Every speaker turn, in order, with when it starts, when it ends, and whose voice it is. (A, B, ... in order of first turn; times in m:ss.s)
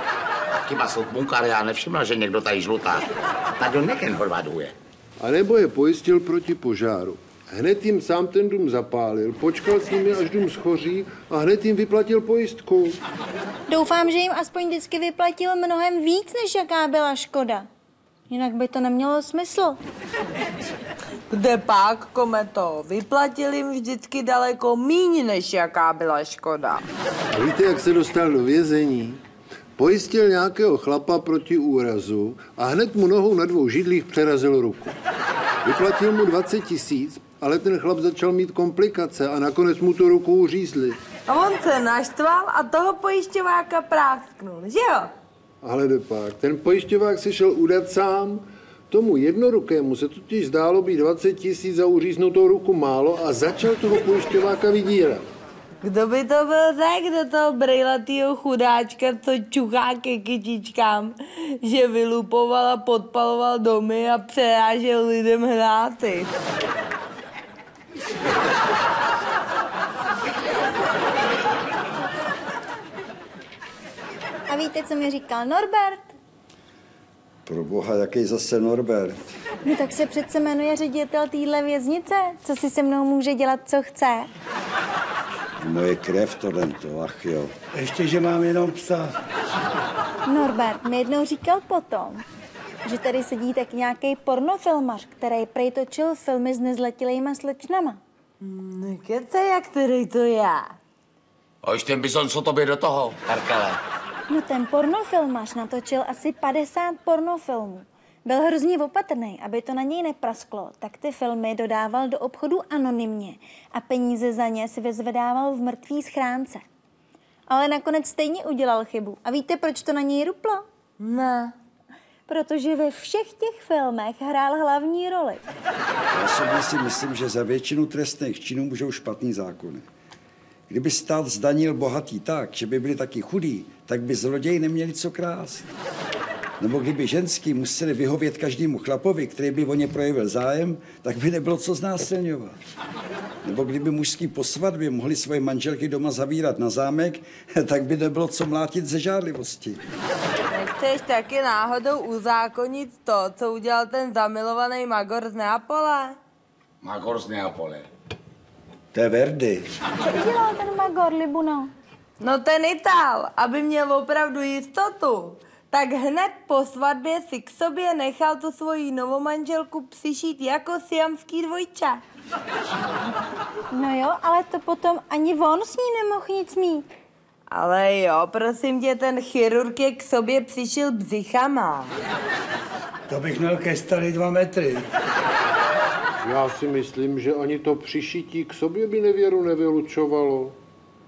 0:00.5-0:04.7 A
0:05.2-0:13.0 B
0:13.7-0:17.7 C
0:18.3-0:19.8 C
0:21.3-0:26.8 D
0:27.3-0:29.2 B
0:29.8-0:35.0 B
0:35.6-0:41.0 B
0:41.3-0:45.1 D
0:45.6-0:55.3 B
0:55.8-1:06.3 D
1:14.5-1:16.1 C
1:17.4-1:19.2 E
1:19.6-1:24.3 C
1:25.6-1:27.5 E
1:27.7-1:29.1 F
1:30.3-1:32.2 C
1:32.8-1:38.0 C
1:38.4-1:40.8 D
1:41.6-1:43.8 A
1:44.3-1:56.6 C
1:57.5-2:00.6 C
2:01.0-2:01.5 D
2:02.3-2:05.4 C
2:06.1-2:09.8 E
2:10.7-2:15.7 E
2:16.6-2:22.6 E
2:23.4-2:29.8 E
2:30.5-2:36.2 D
2:36.8-2:37.9 A
2:38.9-2:39.7 E
2:40.0-2:41.7 C
2:42.2-2:52.0 D
2:53.7-2:56.9 C
2:57.5-3:02.0 D
3:03.1-3:04.9 F
3:06.2-3:10.6 B